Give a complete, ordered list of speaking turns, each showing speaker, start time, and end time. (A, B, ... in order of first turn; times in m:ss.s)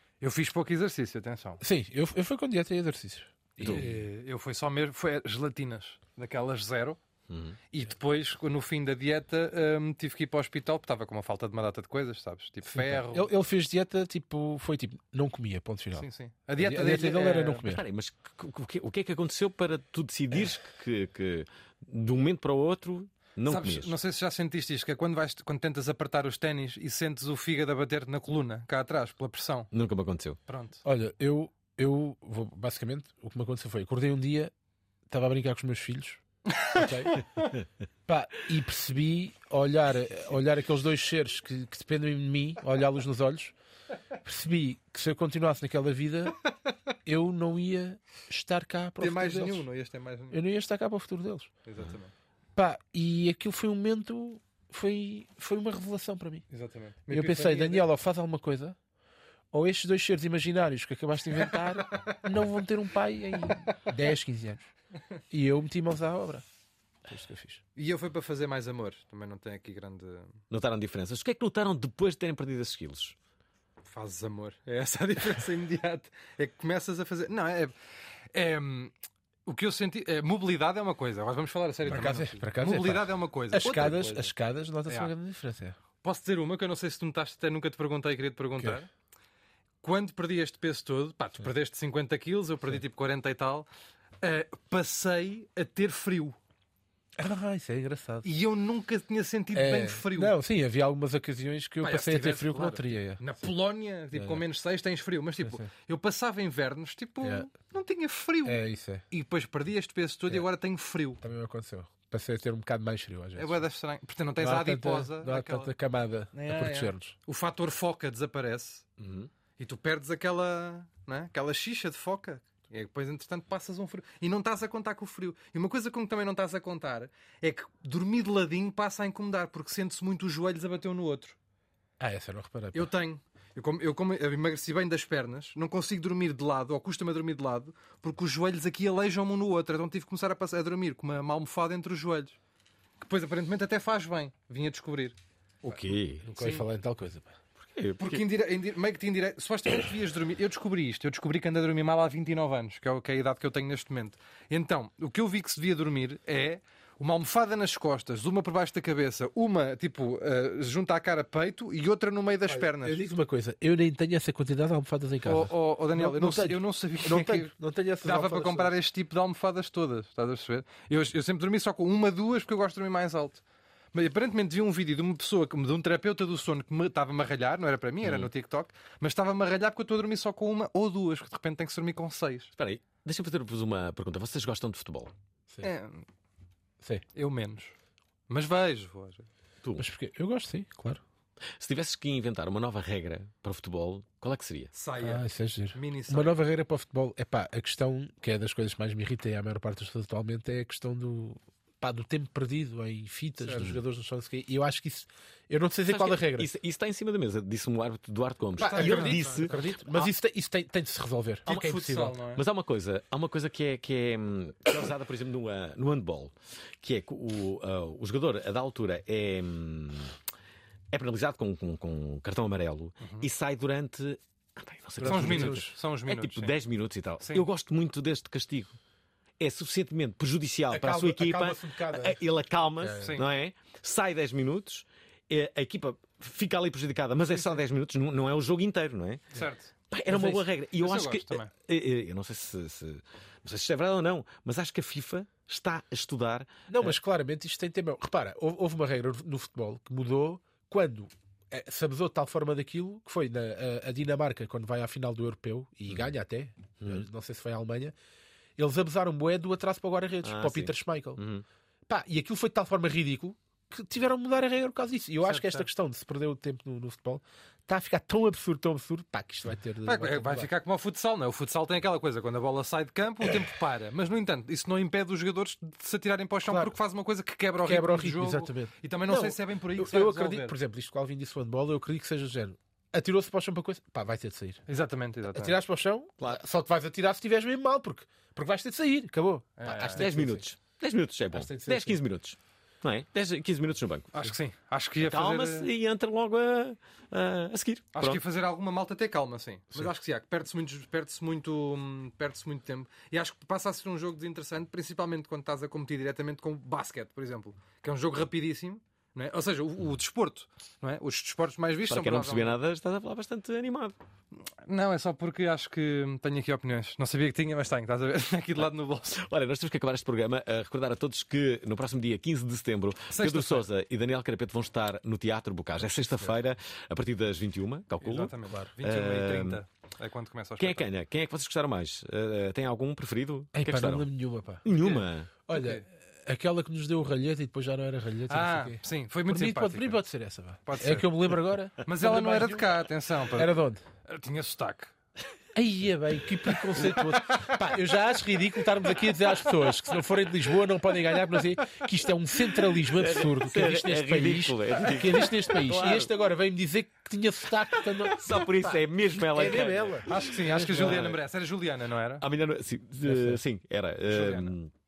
0:00.2-0:01.6 A
0:01.6-0:04.0 B
0:03.6-0:03.9 C
0:03.6-0:07.0 A
0:07.3-0:07.6 C
0:07.7-0:13.3 A
0:12.7-0:17.8 B
0:16.0-0:17.6 A
0:17.6-0:23.9 C
0:23.5-0:29.7 A
0:29.7-0:30.4 C
0:30.5-0:30.8 A
0:30.8-0:34.5 B
0:35.1-0:36.2 B
0:36.5-0:37.2 A
0:36.7-0:37.2 B
0:38.1-0:43.6 B
0:44.2-0:46.4 B
0:47.1-0:49.6 B
0:49.0-0:50.4 A
0:50.3-0:51.5 B
0:51.6-0:52.1 A
0:52.6-0:56.4 B
0:56.5-0:57.8 A
0:57.1-0:58.8 B
0:59.5-1:04.7 B
1:05.3-1:06.4 B
1:07.1-1:07.6 B
1:07.8-1:10.4 A
1:10.5-1:13.2 C
1:13.8-1:17.7 A
1:18.3-1:18.9 A
1:19.5-1:24.3 A
1:21.9-1:25.8 B
1:26.0-1:28.9 A
1:29.8-1:33.7 A
1:34.2-1:36.4 A
1:37.2-1:38.3 B
1:38.2-1:40.3 A
1:39.5-1:43.3 B
1:41.8-1:51.2 A
1:44.1-1:44.4 B
1:45.4-1:45.7 B
1:47.2-1:47.5 B
1:48.4-1:49.0 B
1:51.2-1:53.6 B
1:53.4-1:55.7 A
1:54.4-1:57.2 B
1:56.3-1:58.8 A
1:59.0-1:59.3 C
1:59.6-2:11.4 A
2:12.0-2:12.9 B
2:12.7-2:22.4 A
2:23.0-2:25.2 A
2:25.6-2:26.3 C
2:26.2-2:27.4 B
2:26.4-2:26.6 A
2:27.6-2:28.2 C
2:28.0-2:43.0 A
2:42.5-2:48.8 B
2:45.2-2:47.5 A
2:48.0-2:53.4 A
2:53.9-3:02.5 A
2:58.0-2:58.3 C
3:02.6-3:05.1 C
3:05.6-3:06.1 A
3:06.8-3:07.1 B
3:07.2-3:07.7 A
3:08.3-3:09.3 A
3:09.8-3:11.0 B
3:11.6-3:14.7 C
3:14.7-3:15.2 A
3:15.0-3:26.5 B
3:15.7-3:16.4 A
3:23.4-3:23.8 A
3:25.9-3:29.5 C
3:28.6-3:30.1 A
3:28.6-3:32.2 B
3:31.5-3:32.4 A
3:32.4-3:40.2 C
3:40.9-3:48.8 C
3:43.0-3:43.3 A
3:45.0-3:45.7 B
3:45.0-3:46.6 A
3:47.2-3:47.5 A
3:49.4-3:59.3 C
3:50.7-3:52.2 B
3:52.8-3:53.2 B
3:53.0-3:53.3 A
3:57.3-3:57.6 A
3:59.3-3:59.7 A
3:59.9-4:06.9 C
4:00.1-4:00.5 B
4:00.8-4:01.5 A
4:06.7-4:18.0 B
4:16.8-4:17.0 C
4:18.6-4:21.2 B
4:20.2-4:21.4 C
4:21.9-4:30.5 B
4:25.3-4:25.6 A
4:29.9-4:40.6 A
4:36.5-4:36.7 B
4:37.6-4:44.6 B
4:44.7-4:45.6 A
4:45.3-4:50.5 B
4:49.6-4:50.1 A
4:49.9-4:54.1 C
4:51.3-4:52.0 B
4:54.1-4:55.7 A
4:55.0-4:58.2 C
4:57.9-5:12.6 A
5:11.9-5:14.0 C
5:14.4-5:19.1 A
5:19.1-5:29.6 C
5:23.1-5:23.7 A
5:25.8-5:26.4 B
5:28.0-5:30.9 A
5:30.6-5:34.1 C
5:33.5-5:34.7 B
5:34.6-5:35.3 C
5:34.8-5:35.8 A
5:35.5-5:42.8 B
5:38.3-5:40.0 A
5:40.7-5:41.1 A
5:41.8-5:43.5 A
5:43.3-5:43.8 B
5:44.1-5:44.9 A
5:45.6-6:01.1 B
5:52.9-5:56.1 C
5:58.1-6:01.2 C
6:00.1-6:02.2 A
6:02.2-6:04.7 C
6:03.0-6:03.4 B
6:04.1-6:04.5 A